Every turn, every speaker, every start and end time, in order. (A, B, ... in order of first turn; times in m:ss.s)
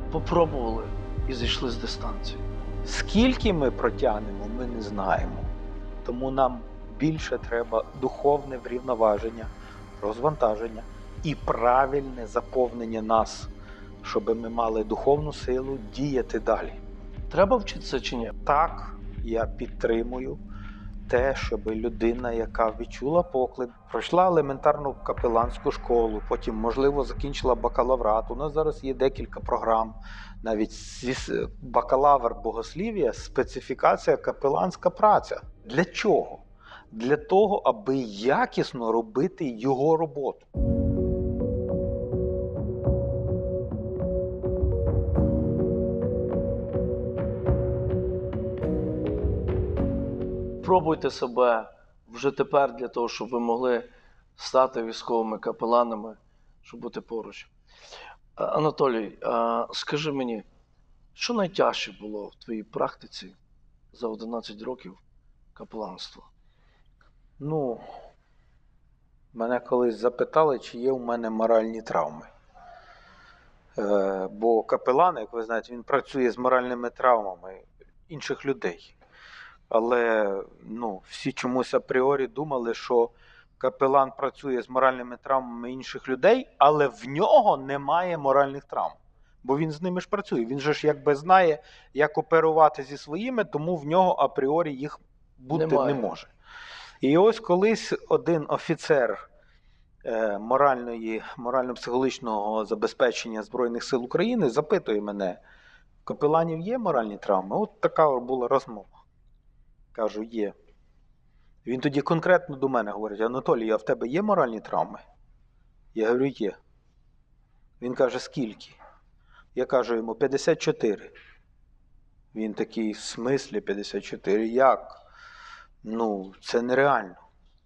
0:00.1-0:02.4 A
0:02.8-0:05.5 B
0:06.0-0:13.5 B
0:14.0-0:16.8 B
0:17.3-0:18.4 A
0:18.4-0:20.4 B
0:21.1-0:40.5 B
0:50.6-0:57.5 A
0:58.4-1:00.5 A
1:01.2-1:03.4 A
1:03.9-1:05.0 A
1:05.6-1:06.3 A
1:07.4-1:07.8 B
1:09.3-1:12.3 B
1:13.8-1:19.0 B
1:19.7-1:36.3 B
1:35.5-1:36.1 A
1:37.0-1:39.2 B
1:40.0-1:45.4 B
1:46.0-1:49.0 B
1:49.9-1:50.6 B
1:51.6-1:55.0 B
1:55.9-1:56.6 B
1:57.8-1:58.8 B
1:59.6-2:01.1 B
2:02.3-2:05.0 B
2:05.8-2:07.2 B